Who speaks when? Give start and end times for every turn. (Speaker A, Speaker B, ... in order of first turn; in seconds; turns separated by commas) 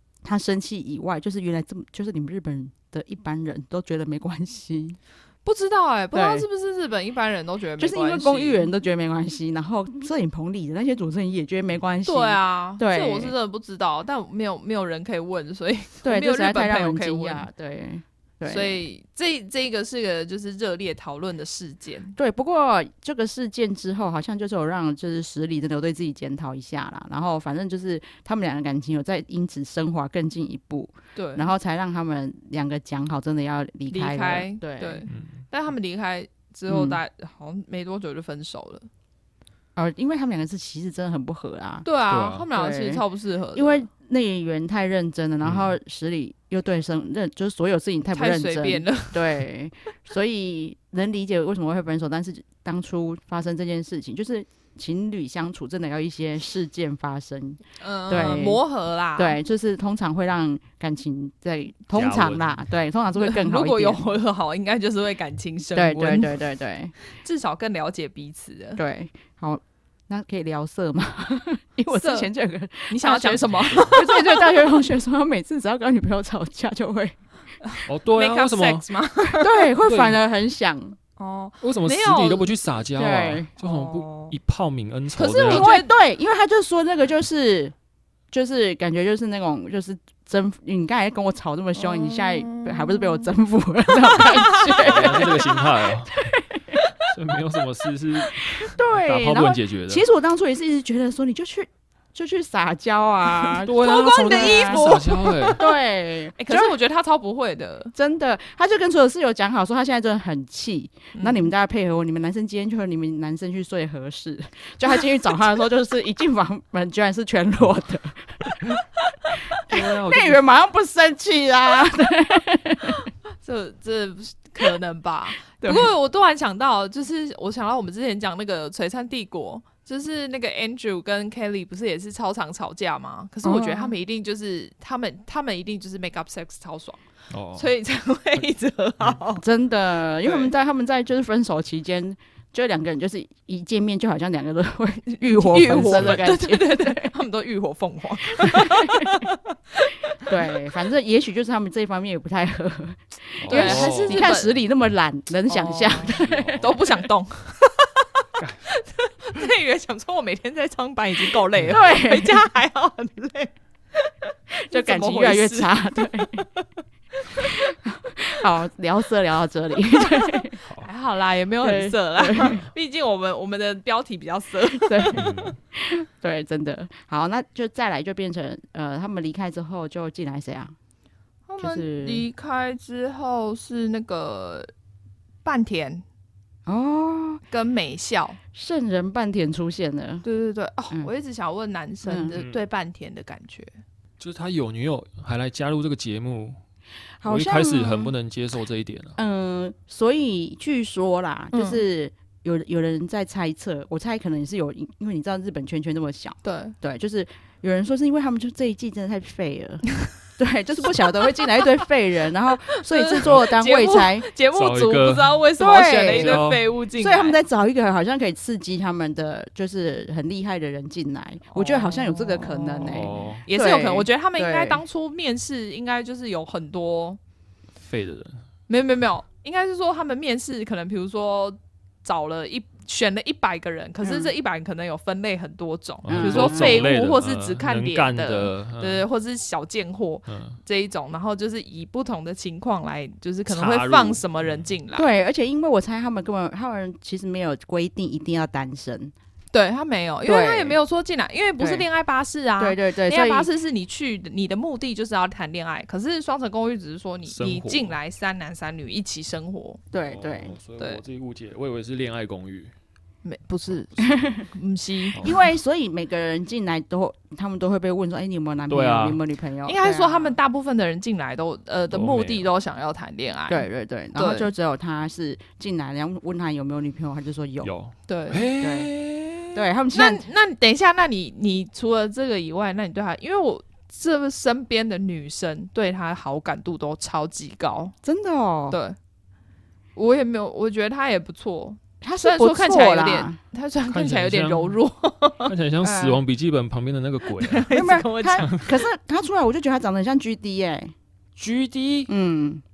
Speaker A: 0.2-5.0, Speaker B: 5.4-8.7, Speaker A: 6.1-6.5, Speaker A: 7.8-13.3, Speaker B: 12.1-17.5, Speaker A: 16.0-18.8, Speaker B: 18.5-22.1, Speaker A: 22.1-35.0, Speaker B: 31.1-31.4, Speaker B: 33.9-38.9, Speaker C: 35.1-35.4, Speaker A: 36.7-37.0, Speaker A: 39.8-41.9, Speaker B: 41.8-43.9, Speaker C: 42.1-42.4, Speaker A: 42.5-43.0, Speaker A: 43.5-58.6, Speaker C: 45.4-45.7, Speaker B: 48.1-49.4, Speaker B: 57.8-59.4, Speaker A: 59.1-64.0, Speaker C: 61.9-62.6, Speaker B: 63.1-66.4, Speaker A: 65.7-66.9, Speaker B: 67.0-68.8, Speaker A: 68.8-77.2, Speaker B: 71.9-72.3, Speaker B: 72.9-74.6, Speaker C: 73.5-73.8, Speaker B: 77.6-79.7, Speaker C: 77.9-78.9, Speaker A: 79.3-81.0, Speaker C: 79.8-80.2, Speaker B: 81.2-82.5, Speaker C: 81.6-85.7, Speaker A: 83.0-83.5, Speaker B: 83.6-84.3, Speaker B: 85.2-85.9, Speaker A: 85.4-87.7, Speaker A: 88.3-96.8, Speaker B: 91.8-93.3, Speaker B: 94.1-95.4, Speaker C: 94.7-96.2, Speaker C: 97.1-100.0, Speaker A: 98.6-106.7, Speaker C: 103.6-105.6, Speaker B: 103.8-105.8, Speaker B: 106.4-107.9, Speaker A: 107.9-118.8, Speaker B: 111.1-111.5, Speaker A: 119.6-123.1, Speaker C: 119.7-120.4, Speaker B: 123.4-139.4, Speaker A: 125.6-125.9, Speaker A: 133.4-133.9, Speaker C: 137.3-137.7, Speaker A: 139.4-147.1, Speaker B: 140.2-140.5, Speaker B: 145.3-149.4, Speaker C: 145.7-146.2, Speaker A: 148.4-149.2, Speaker A: 150.2-156.8, Speaker C: 153.4-154.2, Speaker B: 153.5-154.5, Speaker B: 155.5-158.1, Speaker C: 156.1-156.8, Speaker C: 158.4-158.6, Speaker B: 158.7-164.1, Speaker A: 161.7-162.4, Speaker B: 164.7-166.6, Speaker A: 164.7-166.4, Speaker B: 167.3-167.6, Speaker A: 167.4-170.6, Speaker B: 170.2-175.4, Speaker A: 171.6-172.6, Speaker A: 174.9-180.7, Speaker C: 175.1-175.6, Speaker B: 181.5-184.7, Speaker A: 181.6-182.2, Speaker B: 185.4-186.0, Speaker A: 186.7-187.4, Speaker B: 187.5-188.4, Speaker A: 188.5-190.2, Speaker B: 190.2-193.7, Speaker A: 192.0-192.3, Speaker C: 192.3-192.6, Speaker C: 194.2-196.6, Speaker A: 197.2-198.1, Speaker C: 197.2-199.2, Speaker A: 199.2-214.3, Speaker B: 201.5-201.8, Speaker B: 206.4-206.8, Speaker B: 212.8-217.4, Speaker C: 214.5-215.4, Speaker A: 215.6-224.8, Speaker C: 216.1-216.7, Speaker B: 221.5-227.2, Speaker C: 222.8-223.4, Speaker C: 227.8-228.4, Speaker B: 228.7-245.1, Speaker A: 234.0-234.3, Speaker C: 236.0-239.0, Speaker A: 236.1-236.9, Speaker C: 240.3-240.6, Speaker C: 243.5-244.7, Speaker A: 244.9-249.1, Speaker B: 249.5-259.8, Speaker A: 250.2-250.8, Speaker A: 251.6-251.8, Speaker A: 252.6-253.5, Speaker C: 257.3-257.9, Speaker A: 259.9-260.6, Speaker C: 260.1-262.7, Speaker B: 263.2-265.2, Speaker A: 265.2-270.4, Speaker C: 268.7-269.2, Speaker B: 269.6-274.5, Speaker C: 271.9-272.5, Speaker A: 273.5-277.7, Speaker C: 277.6-279.4, Speaker B: 278.1-278.5, Speaker A: 278.6-278.9, Speaker A: 279.5-280.2, Speaker B: 279.9-287.9, Speaker A: 288.0-288.8, Speaker B: 288.7-288.9, Speaker B: 289.9-295.5, Speaker A: 292.0-293.4, Speaker C: 293.9-294.8, Speaker C: 295.4-297.7, Speaker A: 295.8-296.2, Speaker B: 297.2-298.5, Speaker A: 297.7-300.9, Speaker C: 298.4-298.7, Speaker C: 301.4-302.1, Speaker A: 302.1-302.6